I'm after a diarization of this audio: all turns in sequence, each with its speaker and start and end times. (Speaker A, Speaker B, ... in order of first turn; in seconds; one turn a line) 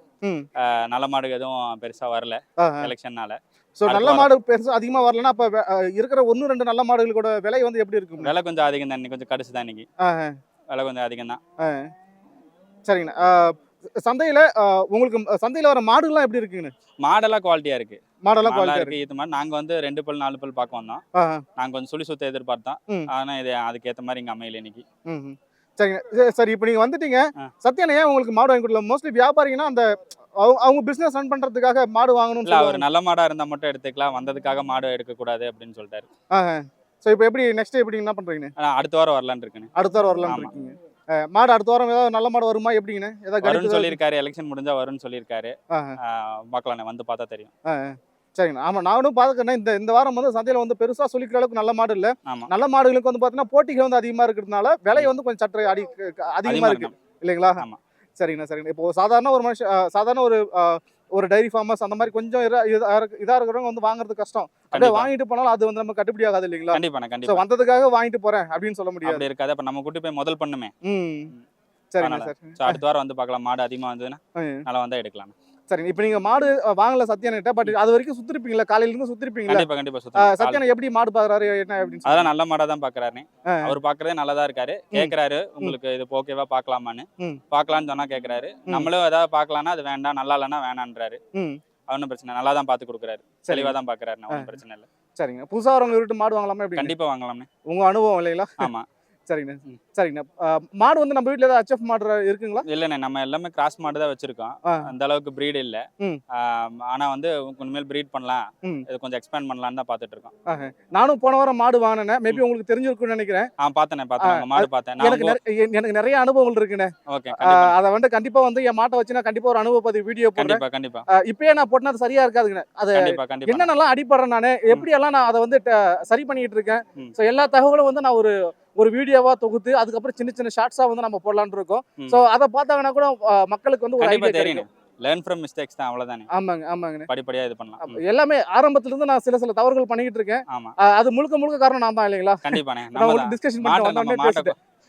Speaker A: 0.6-4.3
Speaker B: 2.6-2.9
Speaker B: 3.8-8.3
Speaker A: 8.2-9.8
Speaker B: 10.0-10.3
Speaker A: 10.7-11.4
Speaker B: 11.6-11.9
Speaker B: 12.9-16.7
Speaker A: 17.0-21.0
Speaker B: 18.2-18.9
Speaker B: 21.1-21.4
Speaker A: 21.6-24.8
Speaker B: 25.1-29.9
Speaker B: 30.4-32.8
Speaker A: 32.5-36.1
Speaker B: 36.3-38.5
Speaker A: 38.6-39.7
Speaker B: 39.8-44.0
Speaker A: 43.4-47.5
Speaker B: 47.7-57.6
Speaker A: 56.5-56.9
Speaker B: 58.2-69.2
Speaker A: 64.7-65.1
Speaker A: 66.7-67.4
Speaker A: 69.0-70.7
Speaker B: 70.8-71.3
Speaker B: 71.9-72.8
Speaker A: 72.0-75.3
Speaker B: 74.3-74.6
Speaker B: 75.7-82.3
Speaker A: 79.5-80.7
Speaker A: 82.1-91.2
Speaker B: 84.9-85.8
Speaker A: 91.9-94.8
Speaker B: 93.5-93.8
Speaker B: 95.2-96.9
Speaker A: 96.8-97.5
Speaker B: 97.7-98.7
Speaker A: 98.6-98.8
Speaker B: 99.3-102.6
Speaker A: 102.7-105.8
Speaker A: 106.4-110.3
Speaker B: 110.5-113.5
Speaker A: 113.6-115.3
Speaker B: 114.2-120.6
Speaker A: 117.1-117.8
Speaker A: 120.4-121.0
Speaker B: 121.2-134.6
Speaker A: 122.9-123.7
Speaker A: 134.0-136.3
Speaker B: 136.3-137.1
Speaker A: 137.1-138.0
Speaker B: 137.8-144.5
Speaker A: 142.4-144.6